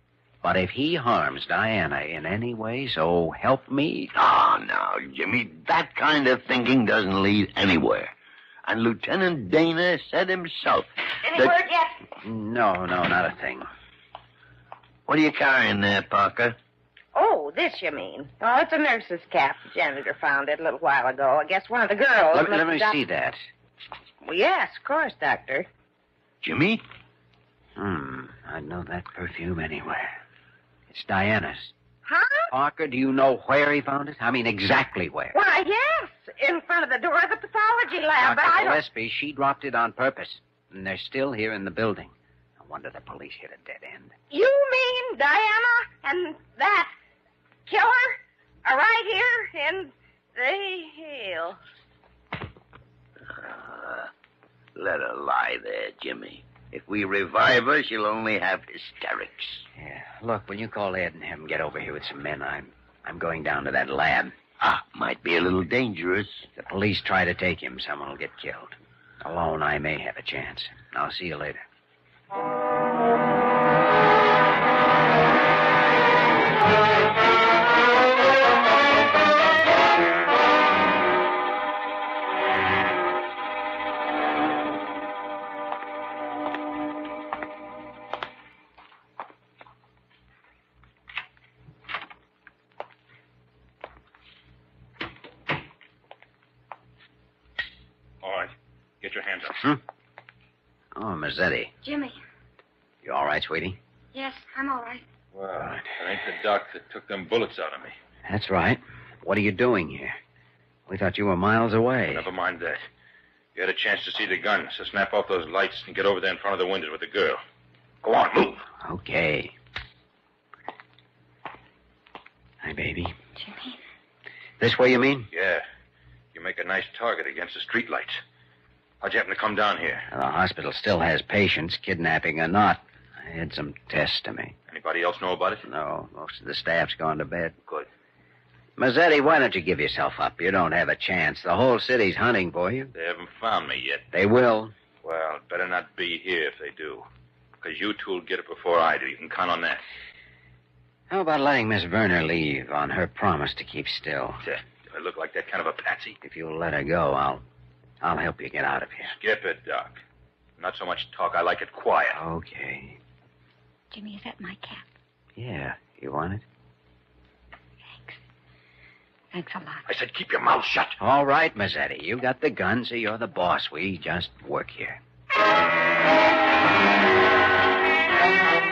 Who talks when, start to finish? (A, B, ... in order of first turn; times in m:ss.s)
0:00.4-0:04.1 A
0:04.1-0:08.1 B
0:08.6-0:11.6 B
0:11.2-0:12.0 C
0:12.2-0:13.7 A
0:15.1-0:16.6 B
0:17.1-0:23.0 C
0:22.3-0:23.4 A
0:24.2-0:25.7 C
0:26.4-0:26.8 B
0:27.8-0:30.2 A
0:30.9-0:31.7 A
0:32.0-0:32.5 C
0:32.5-0:35.3 A
0:35.3-0:38.8 C
0:38.2-0:44.1 A
0:44.3-0:46.9 C
0:47.7-0:51.6 C
0:53.3-0:54.1 B
0:54.7-0:59.6 B
0:59.8-1:04.3 A
1:04.6-1:06.5 B
1:06.6-1:11.6 A
1:38.2-1:39.6 D
1:40.9-1:41.7 A
1:41.8-1:42.2 E
1:43.0-1:43.8 A
1:44.1-1:45.0 E
1:45.3-1:47.9 D
1:48.2-1:50.2 A
1:50.9-1:52.3 A
1:52.1-1:52.8 D
1:53.5-1:57.4 D
1:58.0-1:58.6 D
1:58.8-1:59.5 A
2:02.6-2:03.1 A
2:03.4-2:03.8 E
2:04.6-2:05.3 A
2:05.3-2:05.6 D
2:06.3-2:08.2 D
2:09.0-2:10.1 D
2:10.1-2:14.5 A
2:14.7-2:15.6 D
2:15.6-2:17.6 A
2:18.8-2:22.9 A
2:22.9-2:24.1 D
2:24.1-2:24.7 A
2:25.0-2:27.0 D
2:27.6-2:29.8 D
2:31.1-2:34.4 A
2:34.4-2:36.2 D
2:36.2-2:37.4 A
2:38.0-2:39.1 A
2:39.1-2:40.0 D
2:40.6-2:42.2 D
2:42.1-2:43.0 A
2:43.9-2:44.8 E
2:45.4-2:46.4 A
2:47.9-2:48.2 E
2:49.3-2:49.8 E
2:49.9-2:51.0 D
2:51.0-2:55.0 A